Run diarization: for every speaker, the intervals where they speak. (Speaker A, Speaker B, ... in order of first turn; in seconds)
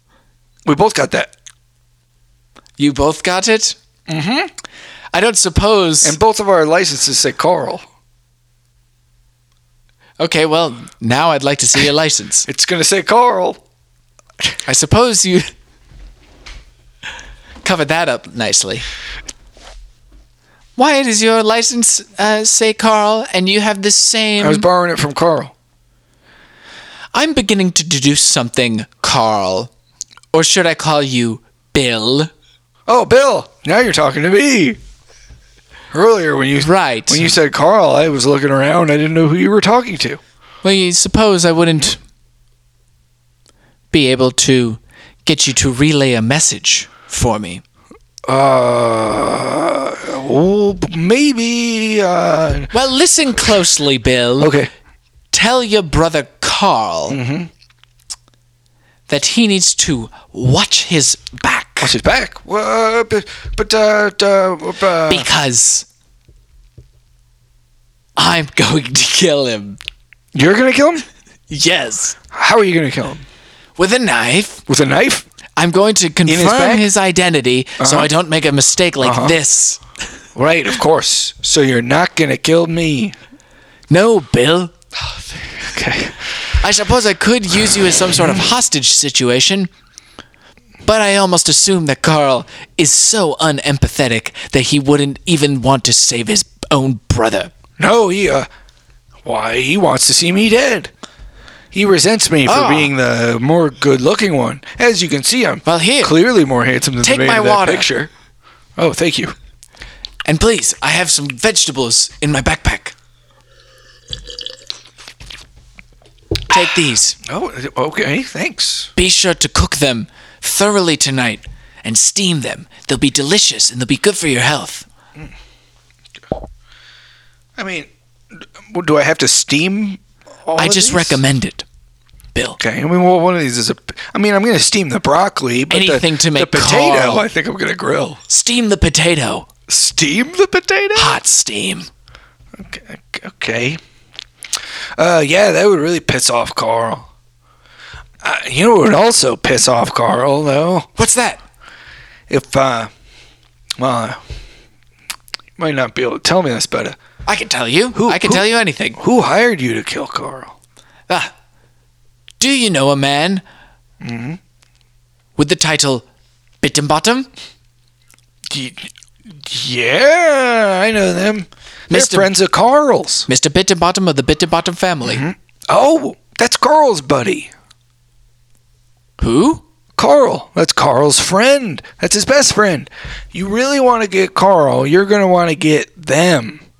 Speaker A: 0.6-1.3, 4.1-4.5, 6.0-7.9, 12.5-13.6, 24.4-25.5, 32.9-34.8, 35.9-40.2, 48.2-52.7, 54.4-54.7, 57.1-57.5, 61.8-65.3, 70.3-71.0, 72.3-73.2, 74.7-75.2, 76.2-76.9, 77.8-78.1, 79.0-79.4, 80.3-83.2, 85.6-86.4, 97.8-98.5, 99.2-100.9, 101.7-108.1, 108.8-109.3, 117.2-118.9, 127.6-131.2, 132.6-138.2, 139.7-141.2, 142.6-143.8, 145.0-147.1, 148.2-150.9, 152.3-152.9, 153.8-154.2, 155.6-157.0, 157.9-160.5, 164.0-164.4, 168.5-173.3, 175.0-177.5, 180.0-186.6
Speaker B: 2.8-3.8, 5.1-6.2, 10.2-12.5, 14.6-15.5, 17.6-18.9, 20.8-24.6, 27.1-29.7, 30.3-32.3, 36.6-37.3, 40.6-42.0, 43.9-47.6, 52.7-54.6, 55.3-57.2, 59.1-62.0, 65.1-65.9, 68.2-69.8, 71.5-72.2, 73.8-74.6, 75.5-79.8, 83.9-84.7, 86.6-89.7, 90.8-97.5, 102.4-102.9, 105.6-106.1, 107.0-107.9, 110.2-112.9, 116.5-117.2, 119.0-124.9, 130.6-131.6, 132.3-132.6, 135.7-137.2, 138.3-139.5, 140.9-141.9, 150.9-151.4, 157.3-159.0, 161.1-161.3, 162.4-163.4, 165.4-166.0, 166.6-167.3, 171.9-172.3, 173.3-175.2, 179.2-179.6